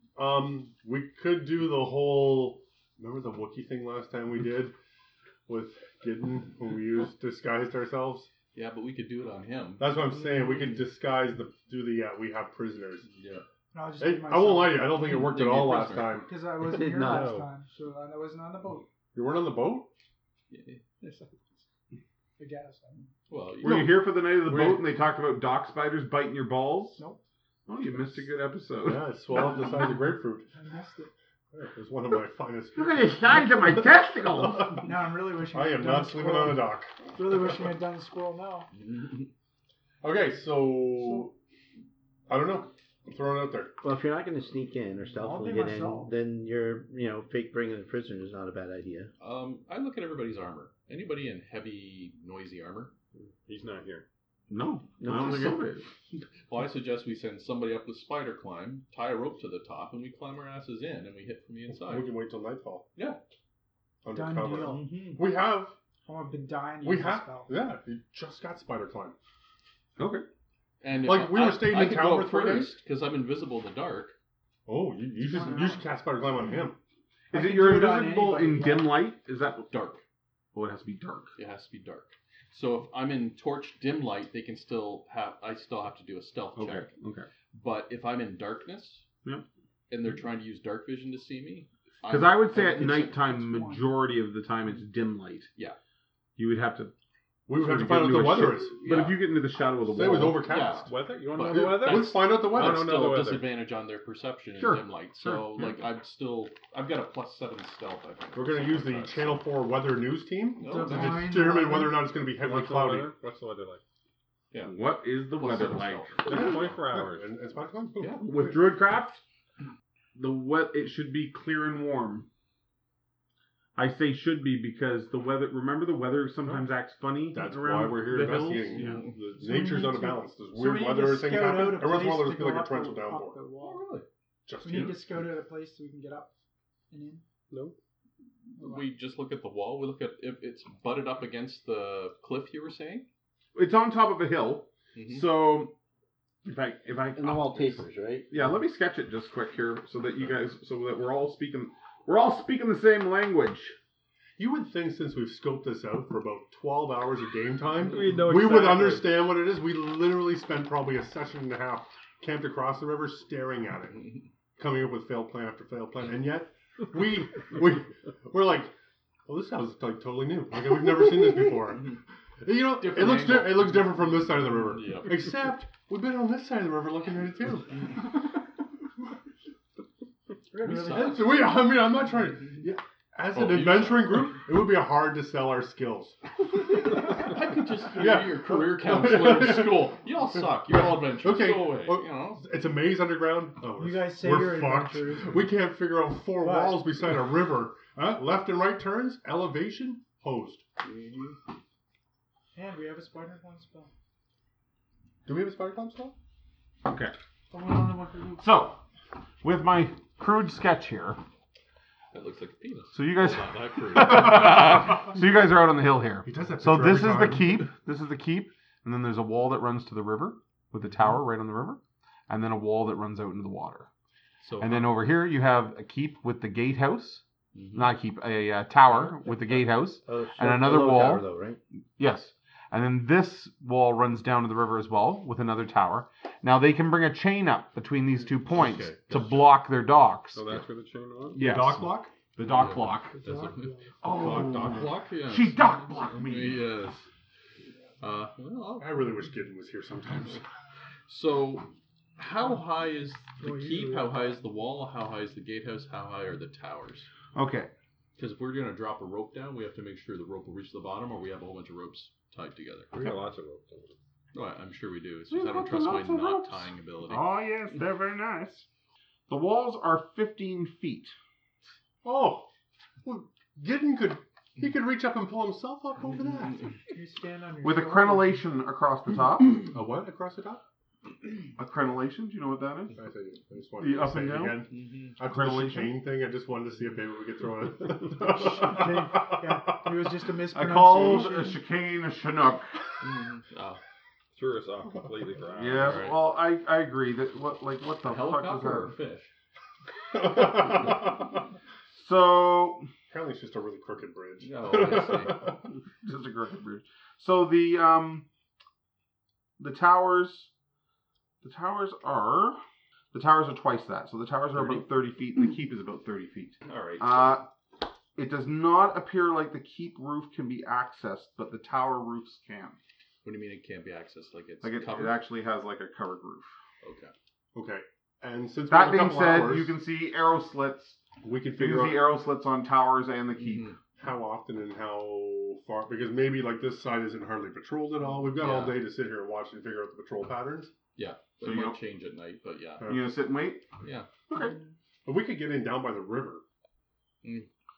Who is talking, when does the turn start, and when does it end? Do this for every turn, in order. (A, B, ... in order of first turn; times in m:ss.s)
0:00.2-0:04.7 A
0:05.5-0:08.3 A
0:08.5-0:10.9 B
0:09.8-0:13.1 A
0:13.1-0:13.4 B
0:13.7-0:15.1 C
0:14.0-0:16.3 A
0:15.0-0:16.2 B
0:16.2-0:18.8 C
0:16.6-0:17.4 D
0:16.9-0:17.5 E
0:19.1-0:19.9 A
0:20.5-0:20.8 B
0:21.0-0:21.3 C
0:22.4-0:23.1 C
0:23.3-0:24.0 B
0:23.6-0:24.9 A
0:23.6-0:27.0 F
0:27.7-0:29.1 F
0:28.8-0:30.5 A
0:30.5-0:31.1 C
0:31.5-0:34.7 A
0:32.8-0:34.9 F
0:34.8-0:38.7 C
0:35.5-0:36.9 A
0:38.7-0:39.3 B
0:40.0-0:41.3 A
0:41.0-0:41.3 C
0:42.3-0:43.7 A
0:43.8-0:49.1 D
0:45.2-0:46.1 C
0:49.2-0:52.9 B
0:53.1-0:54.0 E
0:54.5-0:55.9 F
0:55.0-0:55.6 D
0:56.5-1:02.1 B
1:01.7-1:02.8 A
1:03.0-1:03.2 B
1:04.0-1:05.8 A
1:04.1-1:05.3 C
1:06.0-1:07.6 C
1:06.8-1:09.2 A
1:10.0-1:10.2 F
1:10.8-1:14.2 B
1:11.0-1:12.8 A
1:14.6-1:16.8 A
1:15.2-1:15.8 C
1:15.4-1:15.7 B
1:17.3-1:19.7 F
1:17.3-1:19.0 C
1:19.7-1:20.0 B
1:20.5-1:21.3 F
1:21.4-1:26.9 B
1:26.6-1:27.2 F
1:27.5-1:29.0 B
1:29.9-1:33.1 B
1:32.0-1:35.5 F
1:32.5-1:33.9 C
1:36.4-1:36.9 F
1:37.5-1:38.7 A
1:37.5-1:40.5 F
1:38.8-1:39.2 B
1:39.8-1:43.0 A
1:40.4-1:49.4 B
1:40.8-1:43.5 E
1:44.6-1:45.8 F
1:48.3-1:53.1 A
1:50.6-1:51.3 B
1:50.6-1:52.1 C
1:52.3-1:53.8 E
1:54.5-1:56.6 B
1:54.6-1:56.1 F
1:56.2-1:57.3 E
1:56.3-1:58.6 A
1:58.0-1:58.3 B
1:58.2-1:59.2 F
2:00.1-2:02.3 F
2:03.8-2:09.0 F
2:07.3-2:13.4 A
2:08.2-2:09.2 B
2:09.4-2:13.8 C
2:13.6-2:14.1 B
2:14.4-2:15.2 A
2:14.6-2:16.3 C
2:16.9-2:17.2 C
2:18.6-2:23.0 B
2:18.6-2:18.8 C
2:23.5-2:25.7 F
2:24.9-2:25.3 B
2:26.4-2:33.8 F
2:27.1-2:28.3 D
2:34.4-2:48.7 A
2:37.8-2:39.2 E
2:49.2-2:58.1 A
2:52.8-2:55.4 B
3:00.5-3:01.5 C
3:00.6-3:01.5 B
3:00.8-3:06.2 A
3:03.3-3:04.4 B
3:06.6-3:12.4 B
3:08.0-3:20.6 A
3:13.8-3:15.5 C
3:16.4-3:16.9 C
3:20.8-3:21.4 B
3:22.5-3:23.9 C
3:25.2-3:26.1 A
3:26.8-3:27.1 F
3:27.5-3:28.4 C
3:28.4-3:28.8 F
3:29.4-3:31.2 F
3:32.1-3:35.1 B
3:32.9-3:43.9 F
3:36.2-3:37.6 A
3:44.4-3:44.9 B
3:44.6-3:51.2 F
3:47.5-3:47.9 B
3:49.9-3:51.6 D
3:52.0-4:00.6 F
3:58.5-3:59.3 B
4:00.3-4:01.4 E
4:01.3-4:02.1 A
4:01.3-4:03.1 F
4:02.4-4:07.0 B
4:03.1-4:04.0 C
4:04.0-4:06.9 F
4:08.0-4:09.1 B
4:08.8-4:10.4 A
4:11.1-4:17.1 B
4:13.4-4:14.3 C
4:17.3-4:17.7 F
4:18.2-4:23.1 B
4:22.9-4:24.0 E
4:24.3-4:27.2 B
4:25.3-4:28.6 F
4:29.3-4:31.1 F
4:32.0-4:32.5 A
4:33.0-4:36.6 A
4:36.9-4:38.4 C
4:37.6-4:39.7 F
4:39.6-4:40.6 A
4:41.6-4:43.0 F
4:43.0-4:49.5 A
4:43.8-4:44.6 F
4:44.7-4:45.2 B
4:45.2-4:45.9 F
4:48.2-4:51.6 C
4:50.5-4:52.7 F
4:53.0-4:53.8 B
4:54.3-4:56.1 E
4:55.5-4:58.9 F
4:55.8-4:56.2 B
4:58.0-4:59.3 B
5:00.1-5:01.2 A
5:01.9-5:02.9 F
5:03.1-5:05.6 A
5:04.4-5:05.5 B
5:06.0-5:08.2 F
5:09.6-5:10.5 F
5:11.4-5:12.6 F
5:13.1-5:17.5 F
5:14.5-5:14.8 B
5:16.6-5:17.4 B
5:18.2-5:22.8 F
5:23.2-5:25.2 B
5:24.6-5:26.5 F
5:26.8-5:27.1 B
5:27.5-5:29.8 A
5:28.7-5:31.0 F
5:31.2-5:32.1 A
5:31.5-5:33.7 F
5:33.4-5:33.8 B
5:34.0-5:40.7 A
5:38.3-5:38.9 B
5:40.9-5:42.9 B
5:41.4-5:41.8 F
5:42.8-5:43.1 A
5:42.8-5:43.6 F
5:43.8-5:44.1 B
5:44.3-5:44.6 F
5:44.3-5:44.7 C
5:45.0-5:46.4 A
5:47.2-5:47.5 B